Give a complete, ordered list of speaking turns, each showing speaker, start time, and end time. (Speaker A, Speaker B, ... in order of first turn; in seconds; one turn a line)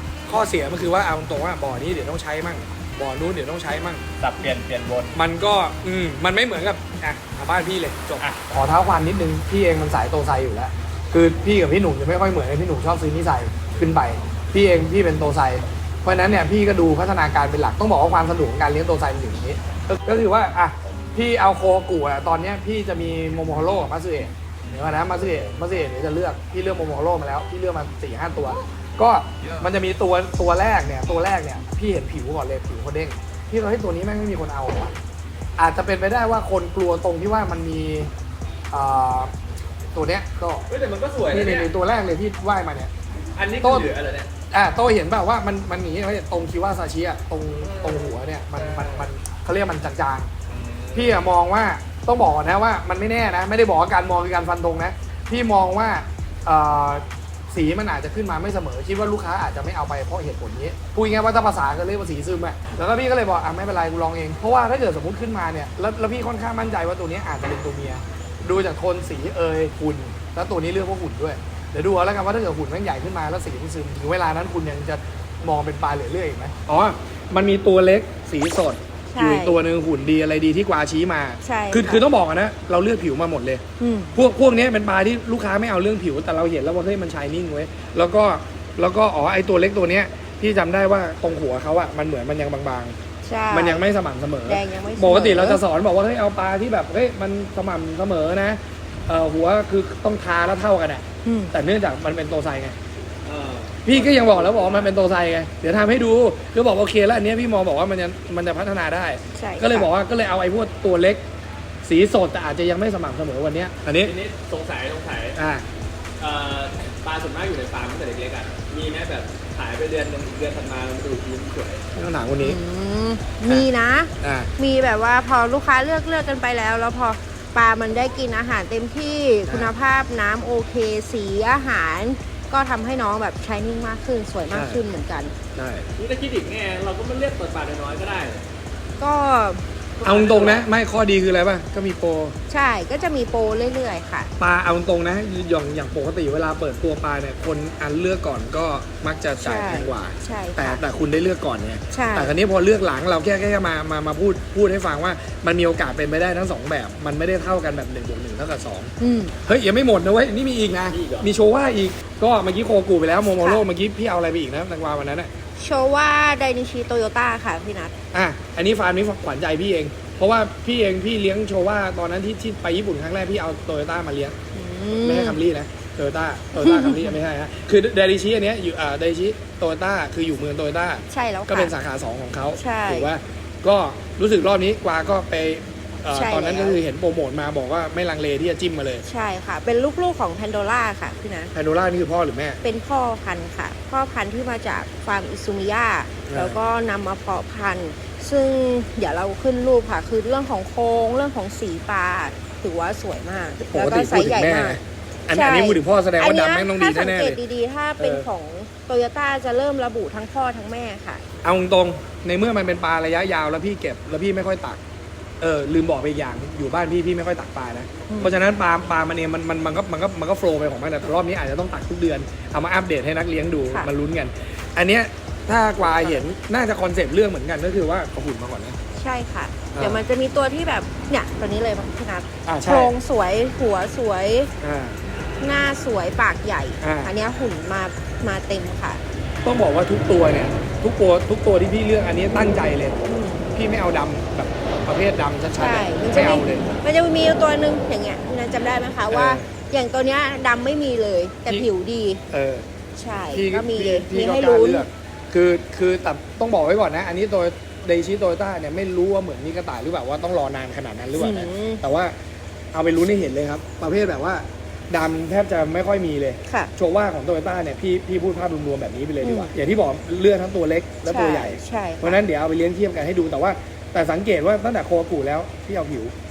Speaker A: 0.3-4.0
Speaker B: 4.2-5.1
Speaker A: 5.1-34.9
Speaker A: 35.6-38.1
Speaker A: 38.7-39.3
Speaker A: 39.9-40.6
Speaker B: 40.7-41.7
Speaker A: 41.3-42.9
Speaker B: 43.4-44.3
Speaker A: 43.6-43.9
Speaker A: 44.5-50.3
Speaker B: 47.6-49.1
Speaker B: 50.5-51.2
Speaker A: 50.9-83.6
Speaker C: 79.1-79.6
Speaker C: 81.4-82.0
Speaker C: 83.8-84.2
Speaker A: 84.1-93.0
Speaker C: 93.2-93.8
Speaker A: 93.5-102.8
Speaker C: 94.5-95.6
Speaker C: 101.2-101.5
Speaker B: 103.2-104.9
Speaker A: 103.8-111.2
Speaker C: 109.3-109.9
Speaker A: 111.8-114.1
Speaker B: 114.0-115.4
Speaker A: 115.3-115.6
Speaker B: 116.2-121.8
Speaker A: 122.0-122.6
Speaker C: 122.4-135.3
Speaker A: 123.5-124.5
Speaker A: 129.5-129.7
Speaker A: 134.5-134.8
Speaker A: 135.6-135.9
Speaker B: 136.0-138.4
Speaker C: 139.0-139.6
Speaker B: 140.0-140.7
Speaker A: 140.0-142.4
Speaker C: 142.5-144.3
Speaker A: 144.4-165.3
Speaker C: 149.4-150.8
Speaker C: 151.9-152.3
Speaker C: 159.0-159.3
Speaker B: 160.9-161.3
Speaker C: 163.3-163.7
Speaker C: 165.6-167.9
Speaker A: 168.1-174.4
Speaker C: 174.5-175.4
Speaker A: 174.9-189.1
Speaker C: 176.6-177.2
Speaker C: 181.1-181.8
Speaker C: 182.6-183.1
Speaker C: 186.1-186.8
Speaker C: 189.0-191.5
Speaker A: 191.5-192.6
Speaker C: 192.6-211.2
Speaker A: 196.3-196.6
Speaker A: 203.6-207.4
Speaker A: 208.0-208.3
Speaker A: 211.4-214.8
Speaker A: 215.4-228.8
Speaker C: 218.1-218.4
Speaker C: 225.8-226.2
Speaker C: 229.0-234.5
Speaker A: 229.7-230.0
Speaker A: 232.4-232.9
Speaker A: 234.6-235.0
Speaker C: 235.4-239.0
Speaker A: 236.8-237.1
Speaker A: 239.4-246.7
Speaker C: 243.0-243.4
Speaker C: 245.5-252.2
Speaker A: 249.1-249.5
Speaker A: 252.3-252.7
Speaker C: 253.0-254.9
Speaker A: 253.3-262.1
Speaker C: 261.1-261.8
Speaker A: 262.7-276.1
Speaker C: 269.2-269.5
Speaker C: 271.1-272.2